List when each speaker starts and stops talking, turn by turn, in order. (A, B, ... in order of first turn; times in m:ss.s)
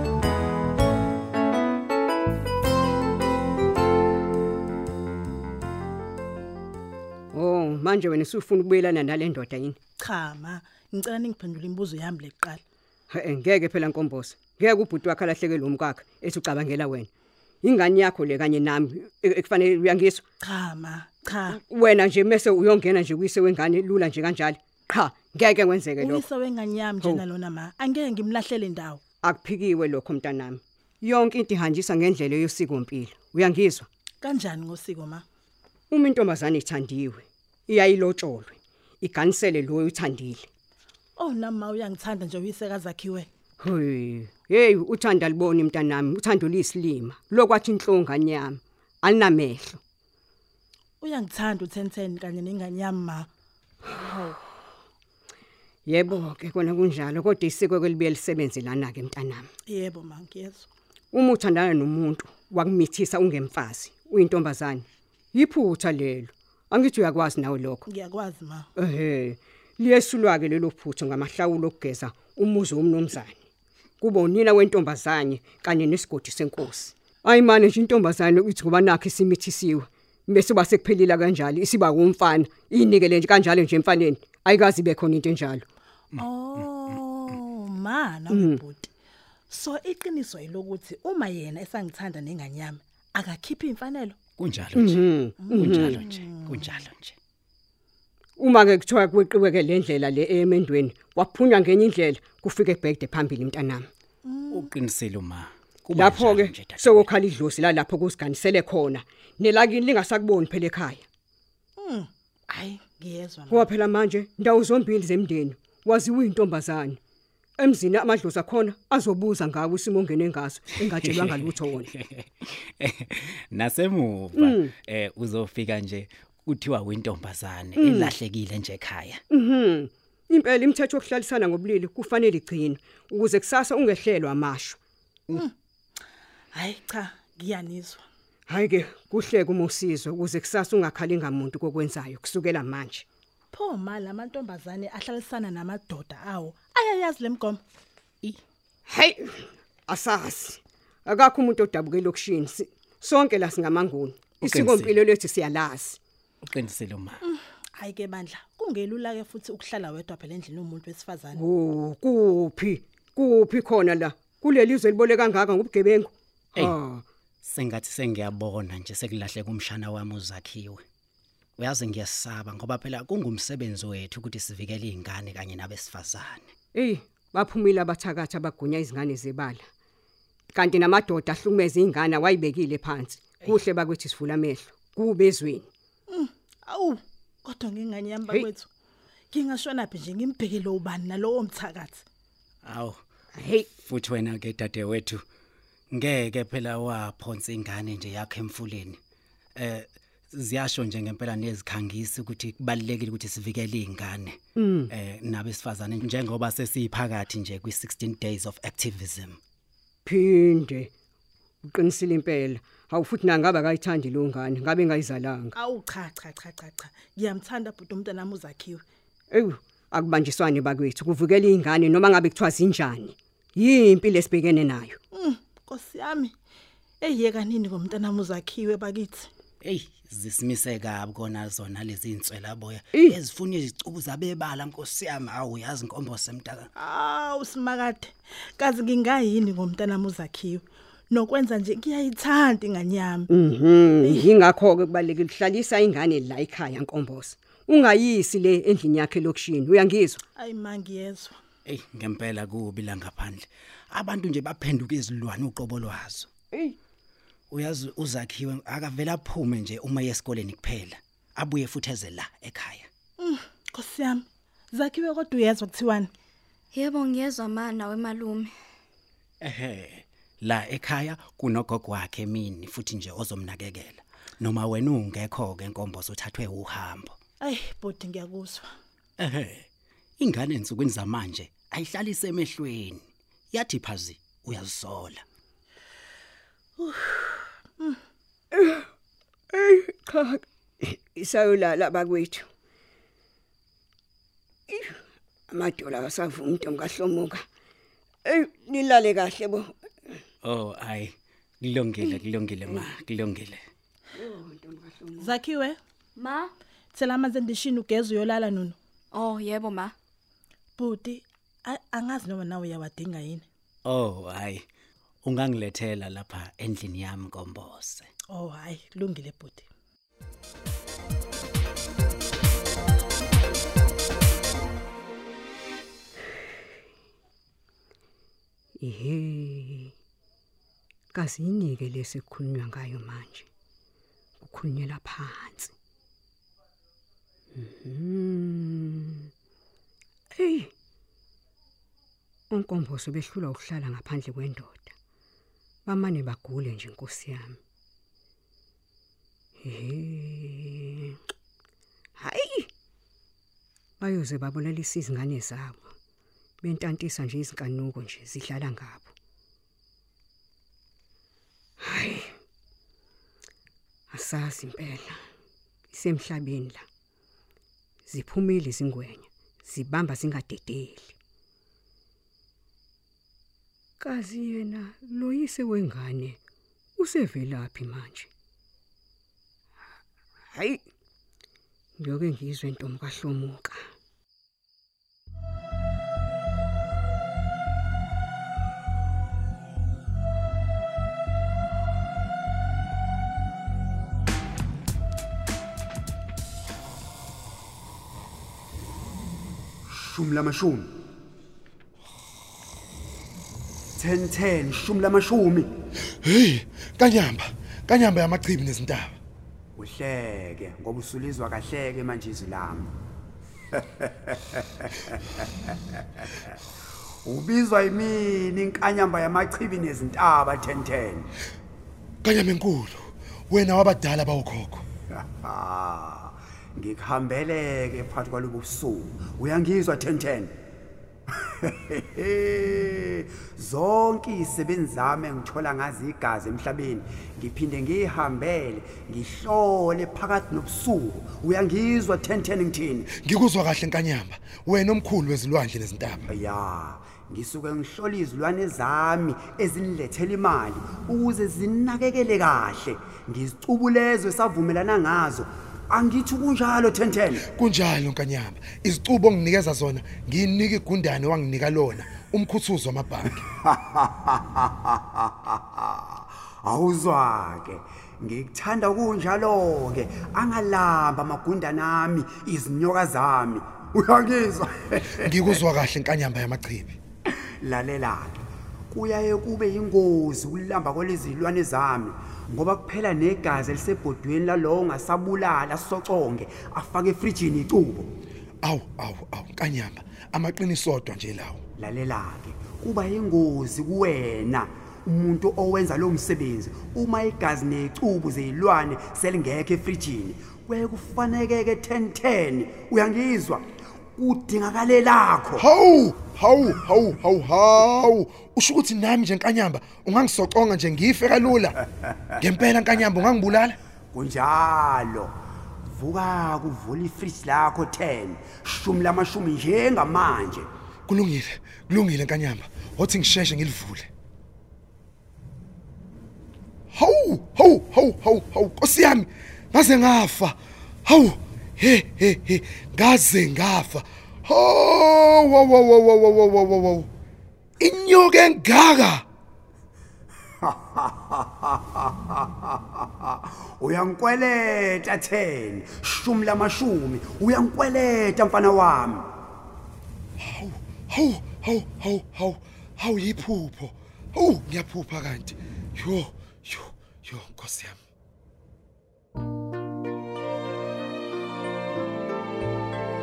0:07.3-0:09.8 A
0:10.0-0:12.6 B
0:13.1-0:17.1 A
0:17.6-0:20.2 A
0:20.4-0:21.6 B
0:21.5-0:26.2 A
0:26.0-0:29.0 B
0:29.2-0:33.9 A
0:34.2-0:35.2 B
0:35.9-0:40.5 A
0:41.2-0:43.3 B
0:43.6-0:49.8 A
0:51.0-0:53.3 B
0:53.9-0:54.4 B
0:55.8-0:59.5 A
0:59.6-1:00.7 B
1:01.1-1:07.8 A
1:07.8-1:08.7 B
1:08.8-1:13.4 A
1:14.0-1:25.6 A
1:26.2-1:28.9 B
1:28.3-1:28.6 A
1:29.5-1:34.2 B
1:34.4-1:37.2 C
1:34.8-1:36.0 A
1:35.5-1:36.5 B
1:38.4-1:43.9 A
1:44.2-1:44.7 B
1:44.5-1:47.1 C
1:45.9-1:51.0 A
1:51.8-1:53.7 B
1:53.5-1:57.0 A
1:57.6-2:01.9 A
2:00.8-2:09.2 C
2:04.4-2:04.7 A
2:07.8-2:08.1 A
2:09.3-2:14.8 A
2:16.5-2:18.0 B
2:18.5-2:23.0 A
2:23.5-2:27.6 B
2:28.9-2:36.0 A
2:34.4-2:35.0 C
2:36.4-2:37.2 C
2:37.2-2:41.4 B
2:41.3-2:47.0 A
2:47.4-2:50.8 C
2:51.6-2:56.5 C
2:56.7-2:59.7 A
3:00.5-3:05.7 A
3:06.1-3:08.7 B
3:09.3-3:12.0 B
3:12.6-3:13.0 C
3:13.4-3:13.7 A
3:13.7-3:15.2 C
3:15.9-3:19.0 C
3:19.6-3:29.4 C
3:24.6-3:24.9 A
3:30.0-3:30.9 A
3:31.6-3:35.5 A
3:35.5-3:38.8 B
3:39.3-3:45.0 A
3:45.1-3:46.3 B
3:47.0-3:49.3 B
3:49.6-3:56.7 C
3:56.8-4:03.3 B
4:03.3-4:10.2 A
4:04.0-4:04.3 B
4:10.4-4:11.4 B
4:11.6-4:16.3 C
4:17.5-4:22.9 C
4:23.2-4:26.1 B
4:26.7-4:28.5 D
4:29.4-4:37.2 C
4:37.4-4:38.7 B
4:39.2-4:39.7 C
4:40.2-4:45.2 C
4:46.8-4:48.0 B
4:48.5-4:48.8 A
4:49.5-4:52.5 A
4:54.7-4:55.0 A
4:55.5-4:57.4 A
4:58.2-5:00.2 A
5:00.4-5:03.6 C
5:04.2-5:05.4 A
5:05.2-5:05.8 B
5:06.2-5:06.5 D
5:06.9-5:08.8 B
5:09.1-5:09.9 D
5:10.8-5:13.4 B
5:13.8-5:14.6 C
5:15.2-5:18.1 C
5:18.3-5:19.7 B
5:28.8-5:29.9 A
5:31.1-5:33.5 A
5:34.4-5:35.7 A
5:37.6-5:39.3 A
5:40.3-5:40.7 A
5:42.5-5:44.9 A
5:45.8-5:47.6 A
5:49.6-5:51.2 A
5:52.2-5:52.7 A
5:54.0-5:55.9 A
5:56.6-5:59.1 A
6:01.8-6:02.3 A
6:04.1-6:05.2 A
6:05.9-6:06.8 A
6:08.1-6:11.1 A
6:14.0-6:16.4 A
6:17.0-6:18.3 A
6:20.5-6:20.8 A
6:22.0-6:23.8 A
6:39.9-6:40.9 E
6:44.0-6:45.7 E
6:46.2-6:49.2 F
6:49.8-6:52.9 E
6:53.7-6:56.5 E
6:57.2-7:01.3 E
7:02.2-7:04.8 F
7:05.1-7:10.5 E
7:11.6-7:23.1 E
7:23.1-7:26.3 F
7:26.3-7:37.4 E
7:37.4-7:43.4 F
7:43.4-7:55.6 E
7:55.2-7:57.0 F
7:57.3-8:08.1 E
8:08.6-8:11.6 F
8:11.8-8:25.6 E
8:25.6-8:31.8 F
8:32.4-8:33.8 F
8:34.1-8:35.3 E
8:35.9-8:40.7 E
8:41.1-8:44.1 F
8:46.9-8:57.1 F
8:57.8-8:59.2 F
9:00.6-9:09.3 E
9:10.4-9:18.0 F